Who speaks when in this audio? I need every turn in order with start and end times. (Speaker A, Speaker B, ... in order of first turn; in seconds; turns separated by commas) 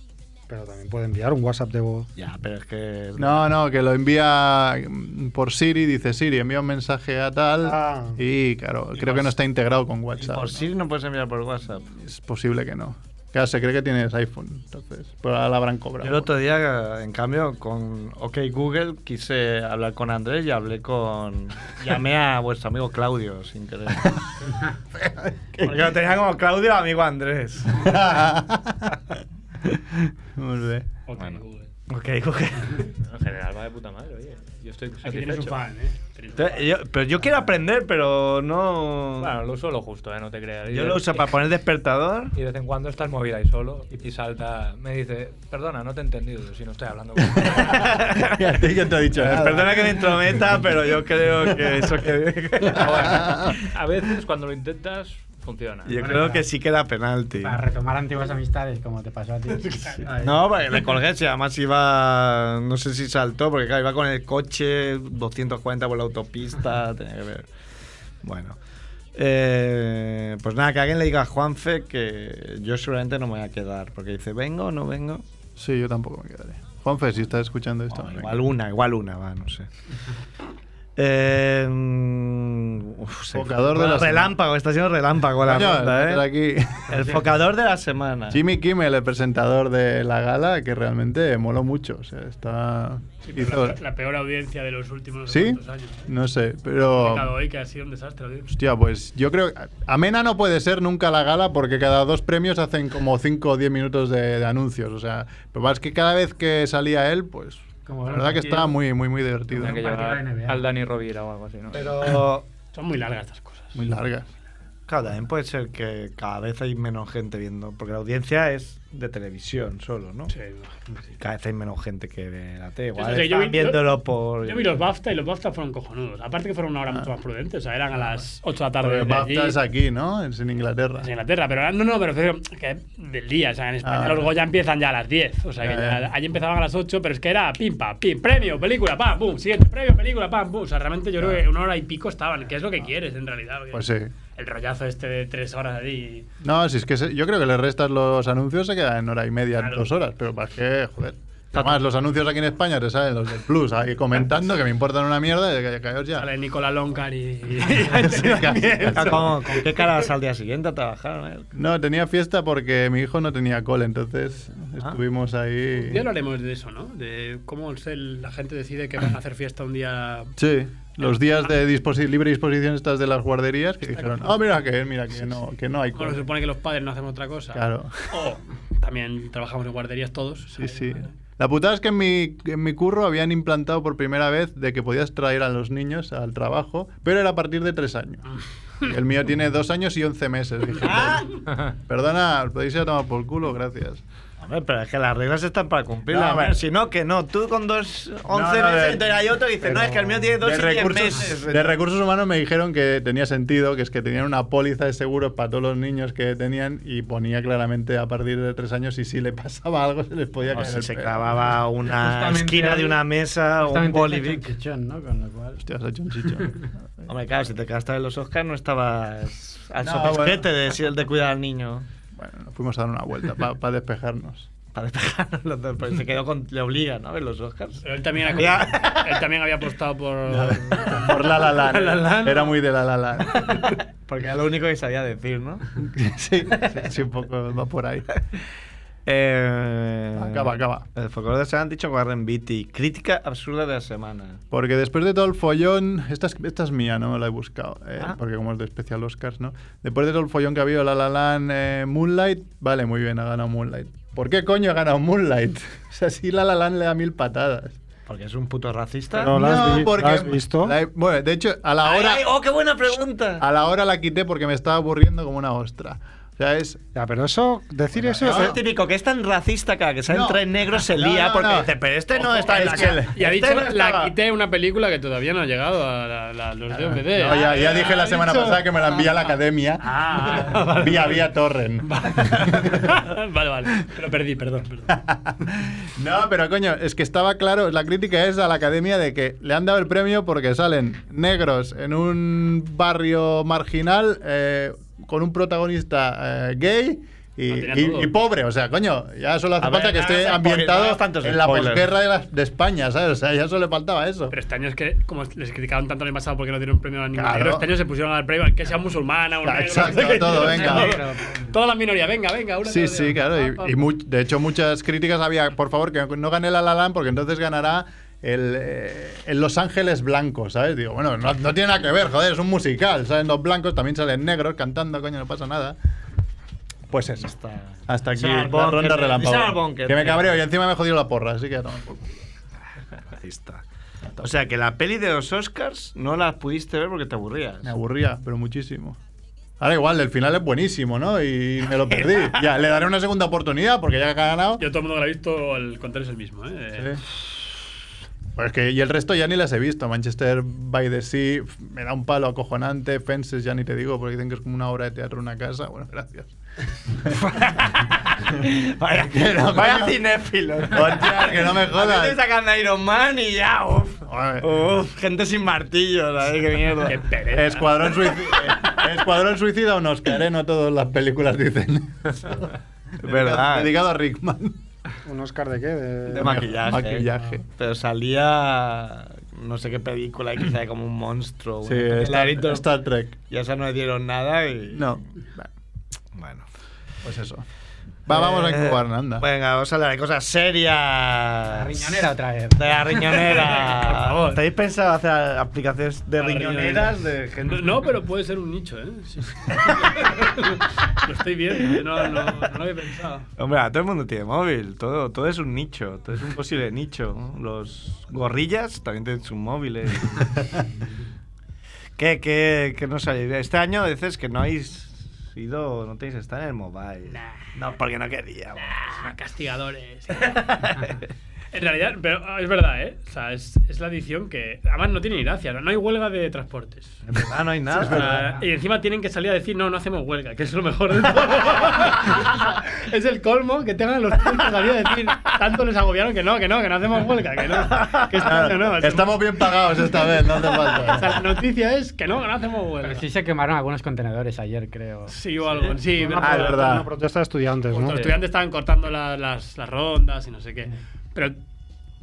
Speaker A: 0.5-2.1, Speaker B: 2.1-3.5, Speaker C: 3.2-10.7, Speaker A: 7.6-8.2, Speaker B: 8.9-9.3, Speaker B: 10.2-11.8, Speaker C: 11.9-16.3, Speaker B: 16.0-24.3, Speaker C: 25.0-25.9, Speaker B: 25.6-28.0, Speaker C: 27.7-29.0, Speaker C: 29.6-30.9, Speaker D: 31.1-31.7, Speaker B: 31.9-32.9, Speaker E: 33.0-35.6, Speaker D: 35.0-36.8, Speaker B: 36.4-39.3, Speaker E: 39.2-41.4, Speaker B: 40.7-42.3, Speaker E: 42.3-48.0, Speaker B: 47.5-48.4, Speaker C: 48.2-50.5, Speaker B: 49.1-53.2, Speaker E: 52.7-56.0, Speaker C: 53.0-53.6, Speaker B: 55.9-57.6, Speaker F: 55.9-56.4, Speaker F: 57.4-60.4, Speaker B: 60.0-67.5, Speaker B: 68.2-68.6, Speaker B: 69.1-75.2, Speaker C: 75.6-78.4, Speaker B: 77.9-79.7, Speaker B: 81.0-86.2, Speaker C: 83.3-84.3, Speaker C: 85.4-87.1, Speaker B: 86.9-88.4, Speaker C: 88.3-93.8, Speaker D: 93.3-96.0, Speaker C: 95.3-97.3, Speaker D: 96.8-98.5, Speaker C: 98.5-109.8, Speaker F: 107.8-108.7, Speaker F: 109.5-110.7, Speaker E: 109.5-112.2, Speaker B: 111.7-112.4, Speaker D: 112.7-113.8, Speaker C: 113.7-114.3, Speaker B: 114.9-120.3, Speaker D: 120.3-120.8, Speaker B: 121.2-124.7, Speaker D: 123.0-123.9, Speaker D: 124.4-129.6, Speaker C: 128.8-131.1, Speaker D: 131.0-146.3, Speaker C: 133.8-134.3, Speaker C: 135.6-136.0, Speaker C: 143.7-144.1, Speaker C: 146.4-156.3, Speaker D: 149.6-149.9, Speaker B: 151.5-151.8, Speaker D: 156.1-159.9, Speaker C: 157.8-159.3, Speaker B: 158.9-161.5, Speaker C: 161.5-166.0, Speaker D: 165.8-170.3, Speaker C: 170.4-176.2, Speaker D: 174.0-174.3, Speaker D: 175.9-181.1, Speaker C: 177.5-178.2, Speaker C: 180.6-188.2, Speaker C: 188.8-194.0, Speaker B: 190.8-191.3, Speaker B: 194.4-201.7, Speaker C: 196.1-196.6, Speaker C: 198.3-199.1, Speaker C: 200.4-211.3, Speaker B: 210.5-214.5, Speaker F: 211.8-213.1, Speaker F: 213.6-215.6, Speaker C: 215.6-217.1, Speaker B: 217.1-221.8, Speaker C: 219.8-220.5, Speaker C: 222.1-224.5, Speaker B: 224.7-229.2, Speaker D: 227.8-232.6, Speaker C: 230.3-233.7, Speaker B: 233.6-235.7, Speaker C: 235.8-238.1, Speaker B: 239.1-244.4, Speaker C: 240.2-240.8, Speaker C: 244.5-257.8, Speaker B: 258.1-259.4, Speaker A: 259.2-260.8, Speaker C: 259.2-262.3, Speaker B: 261.8-263.4, Speaker C: 263.4-266.8, Speaker A: 266.9-268.6, Speaker C: 268.0-268.6, Speaker B: 268.2-273.9, Speaker C: 270.1-274.1, Speaker D: 272.9-279.1, Speaker C: 276.7-283.0, Speaker D: 279.8-281.2, Speaker D: 281.8-284.9, Speaker C: 284.9-304.3, Speaker D: 297.5-298.1, Speaker B: 299.6-301.9, Speaker D: 304.3-313.8, Speaker C: 307.1-307.7, Speaker C: 309.4-311.0, Speaker F: 310.4-311.4, Speaker C: 312.6-325.8, Speaker C: 326.9-327.3, Speaker B: 327.2-330.4, Speaker C: 327.9-332.2, Speaker B: 333.1-333.6, Speaker B: 334.2-337.7, Speaker C: 337.6-339.0, Speaker C: 339.6-344.6, Speaker D: 344.6-347.0, Speaker C: 348.4-356.3, Speaker B: 357.1-367.0, Speaker C: 358.9-360.0, Speaker C: 360.7-362.2, Speaker C: 364.1-364.5, Speaker D: 366.9-368.1, Speaker C: 367.3-374.6, Speaker B: 373.0-373.7, Speaker A: 375.0-376.5, Speaker B: 376.1-382.6, Speaker C: 376.1-377.4, Speaker C: 381.6-383.2, Speaker B: 383.3-385.0, Speaker C: 384.7-385.5, Speaker B: 386.1-386.4, Speaker C: 387.0-387.4, Speaker C: 388.1-389.2, Speaker B: 388.1-392.0, Speaker F: 391.5-393.2, Speaker B: 392.5-397.8, Speaker D: 393.2-394.4, Speaker D: 396.2-403.3, Speaker B: 403.4-410.4, Speaker B: 412.0-419.1, Speaker D: 417.1-417.4, Speaker D: 418.6-420.9, Speaker B: 420.2-421.0, Speaker D: 421.5-427.0, Speaker B: 427.1-428.2, Speaker C: 427.8-428.2, Speaker D: 427.8-439.2, Speaker B: 437.7-438.1, Speaker C: 438.2-441.3, Speaker D: 440.6-443.0, Speaker F: 442.8-445.2, Speaker D: 445.1-446.8, Speaker A: 445.9-448.1, Speaker C: 446.1-446.9, Speaker D: 447.7-451.4, Speaker E: 447.9-448.2